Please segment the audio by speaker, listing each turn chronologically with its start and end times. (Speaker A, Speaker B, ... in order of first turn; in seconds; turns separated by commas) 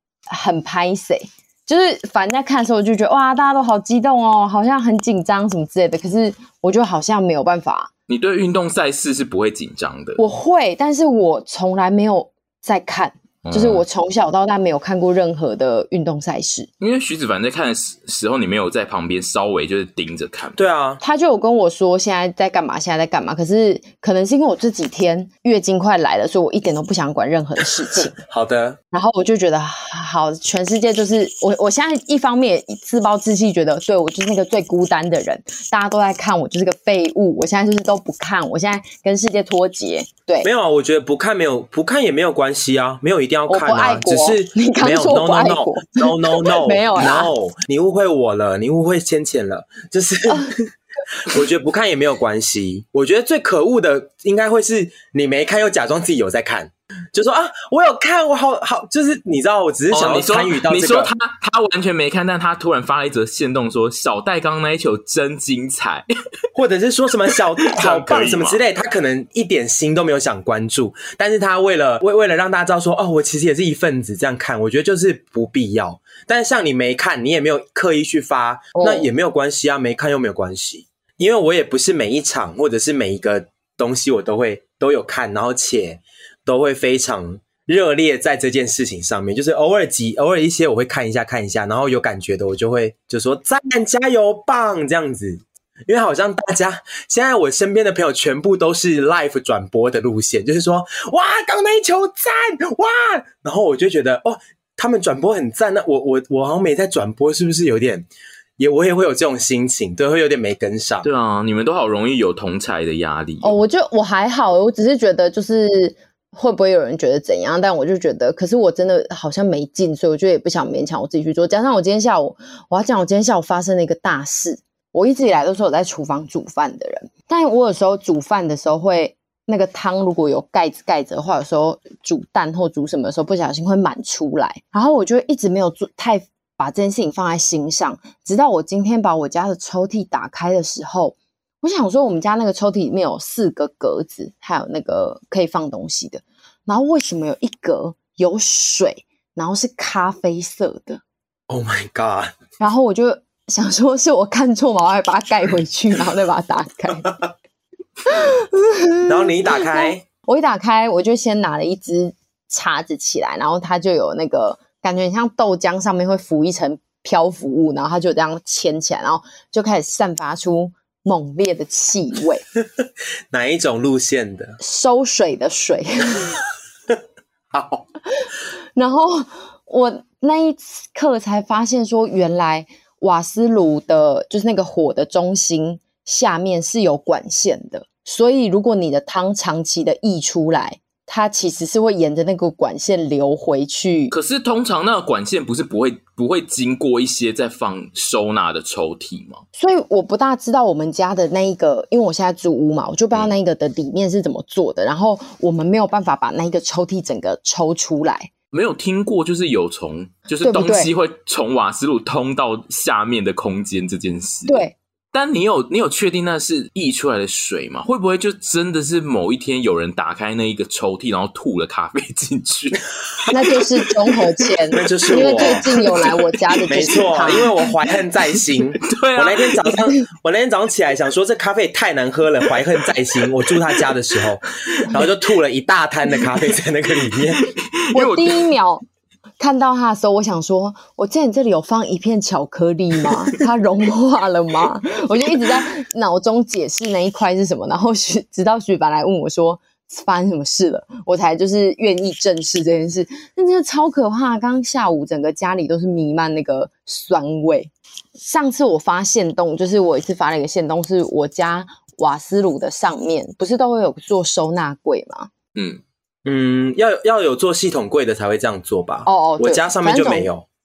Speaker A: 0.3-7.9, Speaker B: 8.1-10.2, Speaker A: 10.2-16.7, Speaker B: 13.4-13.8, Speaker B: 16.8-20.6, Speaker C: 20.6-21.0, Speaker A: 21.0-28.1, Speaker C: 28.0-28.8, Speaker A: 28.9-40.5, Speaker C: 40.4-50.6, Speaker A: 43.5-47.3, Speaker A: 50.3-50.5, Speaker C: 51.3-61.1, Speaker B: 59.9-66.0, Speaker C: 66.5-108.1, Speaker B: 67.8-68.6, Speaker A: 78.8-79.1, Speaker C: 108.6-111.1, Speaker B: 111.0-113.6, Speaker A: 113.4-151.0, Speaker C: 151.5-152.3, Speaker A: 152.6-157.3, Speaker A: 158.1-172.4, Speaker C: 159.1-160.0, Speaker C: 173.3-174.6, Speaker A: 174.6-176.4, Speaker C: 177.5-177.8, Speaker A: 178.2-194.1, Speaker B: 194.1-199.4, Speaker A: 199.6-208.3, Speaker B: 208.5-227.8, Speaker A: 210.4-210.9, Speaker A: 214.5-214.8, Speaker A: 223.3-227.5, Speaker C: 224.8-225.7, Speaker C: 226.7-237.4, Speaker B: 228.8-229.9, Speaker B: 232.6-232.9, Speaker B: 234.8-235.1, Speaker B: 237.1-238.5, Speaker A: 237.9-238.8, Speaker A: 239.4-265.3, Speaker B: 265.6-265.8, Speaker C: 266.2-270.5, Speaker A: 269.1-270.3